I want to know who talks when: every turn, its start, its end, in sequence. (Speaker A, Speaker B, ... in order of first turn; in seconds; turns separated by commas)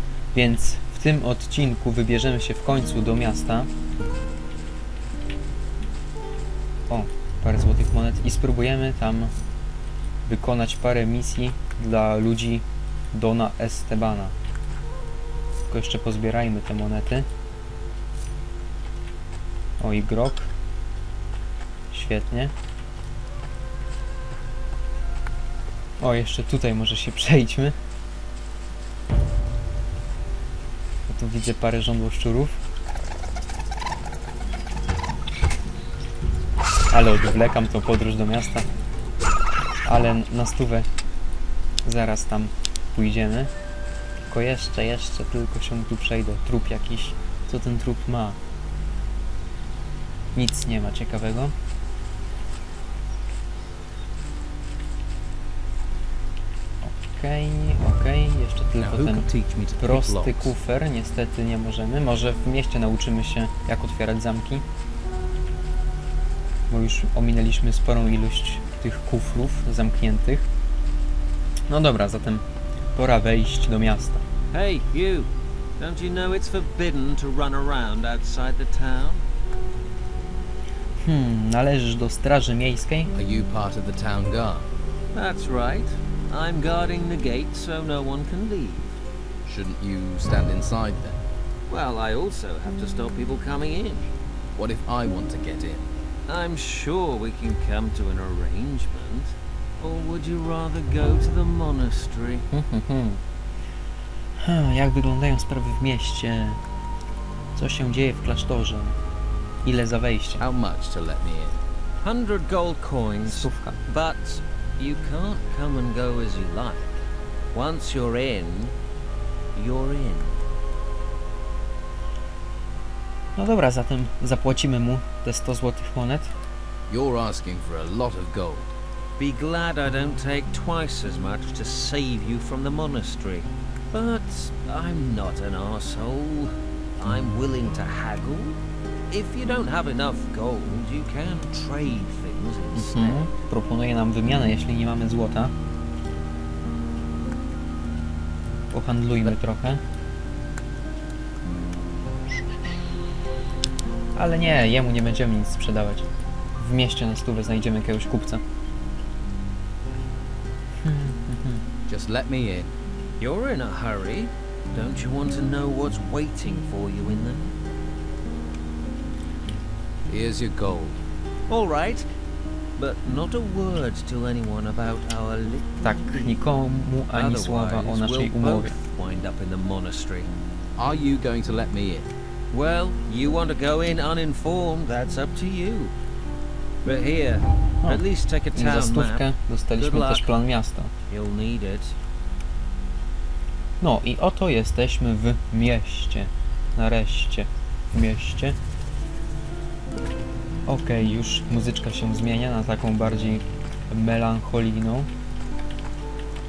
Speaker A: 0.3-3.7, Speaker A: 6.9-9.3, Speaker A: 10.3-14.3, Speaker A: 15.7-17.3, Speaker A: 19.8-20.5, Speaker A: 21.9-22.5, Speaker A: 26.0-27.7, Speaker A: 31.1-32.6, Speaker A: 36.9-38.7, Speaker A: 39.9-40.9, Speaker A: 41.8-43.5, Speaker A: 44.3-48.4, Speaker A: 50.4-51.5, Speaker A: 56.8-64.6, Speaker B: 58.8-60.5, Speaker A: 66.7-70.5, Speaker A: 71.7-72.4, Speaker A: 73.0-74.2, Speaker C: 74.5-79.2, Speaker A: 81.0-83.1, Speaker B: 83.1-84.7, Speaker C: 85.1-89.0, Speaker B: 89.5-91.2, Speaker C: 91.7-94.1, Speaker B: 94.6-95.9, Speaker C: 96.3-102.5, Speaker A: 102.5-103.2, Speaker A: 104.4-106.6, Speaker A: 107.6-109.0, Speaker A: 109.6-110.4, Speaker B: 110.4-111.6, Speaker C: 112.0-116.8, Speaker A: 113.3-113.8, Speaker C: 117.5-118.7, Speaker C: 119.5-120.4, Speaker A: 123.4-126.3, Speaker B: 126.9-128.7, Speaker C: 129.2-138.6, Speaker C: 139.1-143.3, Speaker A: 142.7-145.5, Speaker A: 148.7-149.8, Speaker A: 154.2-156.1, Speaker A: 156.6-158.4, Speaker A: 160.8-161.6, Speaker B: 161.9-162.7, Speaker C: 163.2-167.5, Speaker B: 170.1-171.0, Speaker C: 171.5-172.1, Speaker C: 172.8-176.3, Speaker A: 175.8-178.7, Speaker C: 177.1-180.3, Speaker B: 180.8-182.1, Speaker C: 182.5-185.9, Speaker C: 186.8-190.3, Speaker A: 188.5-190.9, Speaker C: 191.1-191.9, Speaker A: 193.8-198.6, Speaker A: 200.7-205.1